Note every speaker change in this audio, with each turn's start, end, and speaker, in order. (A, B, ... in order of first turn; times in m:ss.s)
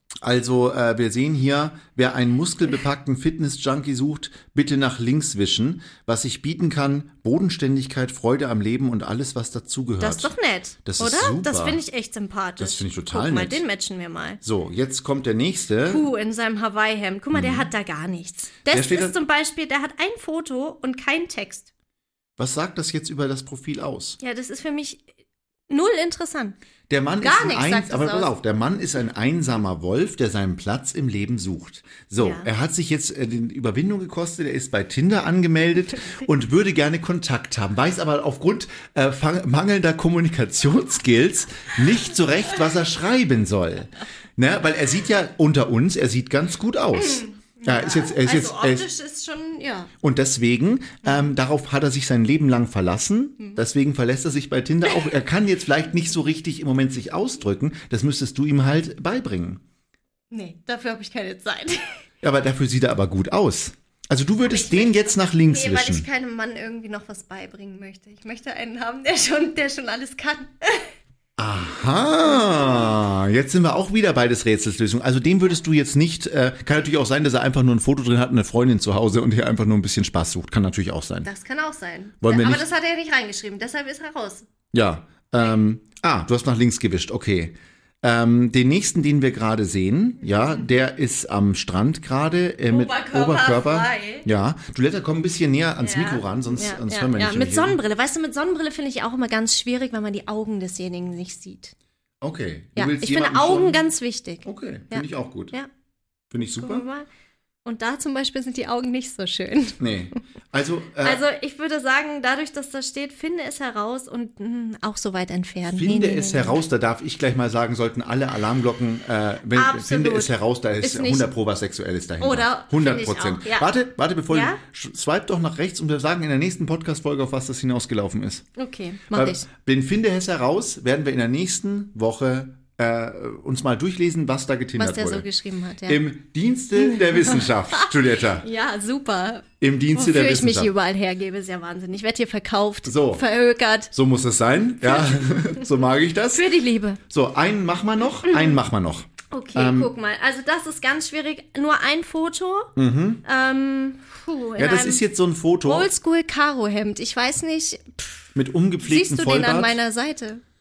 0:00.2-0:10.3 A
0:10.0-0:14.4 B
0:10.8-0:11.8 A
0:12.6-0:13.6 A
0:14.4-0:16.0 A
0:15.8-0:21.7 B
0:17.3-0:17.7 A
0:18.7-0:19.2 A
0:22.4-0:24.2 A
0:24.2-0:25.0 B
0:25.7-0:26.5 B
0:26.9-0:48.9 A
0:27.2-0:28.3 B
0:32.2-0:32.5 B
0:47.0-0:49.9 B
0:50.0-0:59.6 A
1:00.3-1:01.9 B
1:02.2-1:06.0 A
1:04.5-1:10.9 B
1:11.4-1:21.3 A
1:21.2-1:24.5 B
1:22.2-1:22.6 A
1:24.7-1:37.8 A
1:32.7-1:34.3 B
1:35.8-1:41.7 B
1:42.2-1:43.8 A
1:42.8-1:45.7 B
1:44.4-1:45.5 A
1:46.3-1:46.8 A
1:46.4-1:47.1 B
1:47.6-1:49.8 B
1:49.8-1:51.2 A
1:51.0-1:56.6 B
1:55.7-2:08.4 A
1:59.5-2:00.3 B
2:00.8-2:01.3 B
2:02.2-2:03.7 B
2:04.3-2:04.6 B
2:08.6-2:09.4 B
2:09.1-2:15.2 A
2:14.8-2:16.0 B
2:15.9-2:18.5 A
2:16.8-2:17.9 B
2:18.4-2:23.9 B
2:19.6-2:20.7 A
2:22.8-2:23.2 A
2:23.9-2:26.5 A
2:26.3-2:27.0 B
2:27.1-2:29.9 A
2:28.2-2:28.6 B
2:29.3-2:32.7 B
2:32.8-2:33.2 A
2:33.2-2:35.0 B
2:34.6-2:35.9 A
2:35.6-2:38.2 B
2:38.3-2:39.8 A
2:38.8-2:40.4 B